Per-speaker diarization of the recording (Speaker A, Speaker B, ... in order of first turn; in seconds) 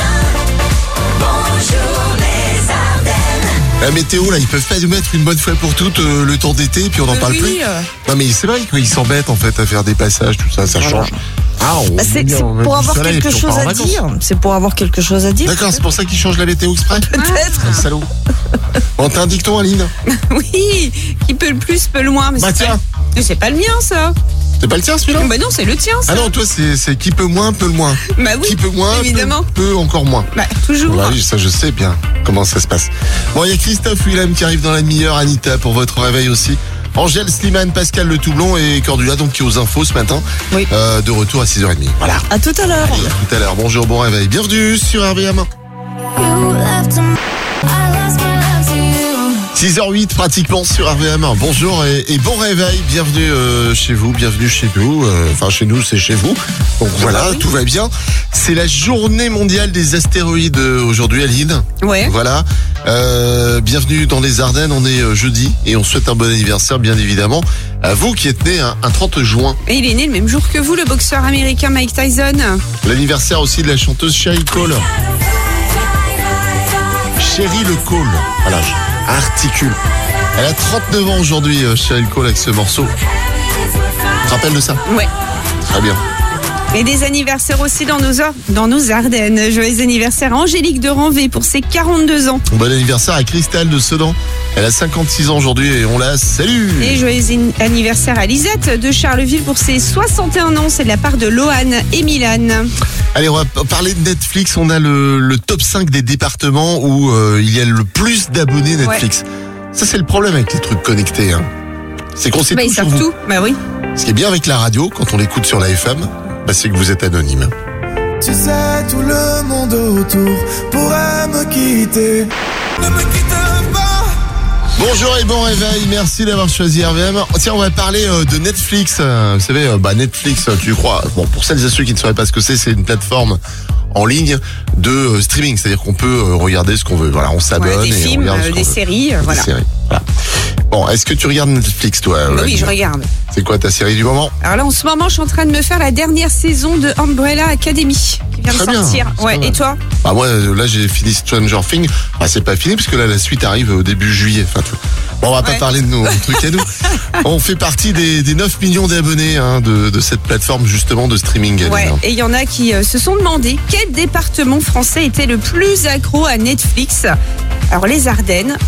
Speaker A: 3.8-14.0, 15.4-18.1, 19.0-19.9, 22.4-22.8, 24.6-25.3, 26.1-30.3, 30.8-45.5, 49.5-69.6, 72.8-74.9, 77.2-79.8, 80.3-82.9, 84.2-84.8, 85.6-86.0, 92.5-97.0, 103.1-111.5, 112.1-113.1, 113.9-117.5, 124.8-133.4, 133.9-140.1, 140.7-142.7, 143.3-144.3, 148.5-162.0
Speaker B: 7.1-7.9, 17.1-17.8, 20.1-24.1, 25.2-26.3, 28.1-29.5, 30.3-31.2, 57.0-57.4, 61.8-62.1, 69.7-72.6, 86.7-92.4, 96.8-102.7, 112.5-113.6, 137.6-139.5, 142.3-143.1, 144.4-149.8, 155.4-157.0, 161.6-167.1, 167.7-168.6
Speaker C: 10.7-11.2, 12.0-15.8, 16.9-17.9, 42.3-43.1
Speaker D: 46.1-49.4
Speaker E: 118.2-124.1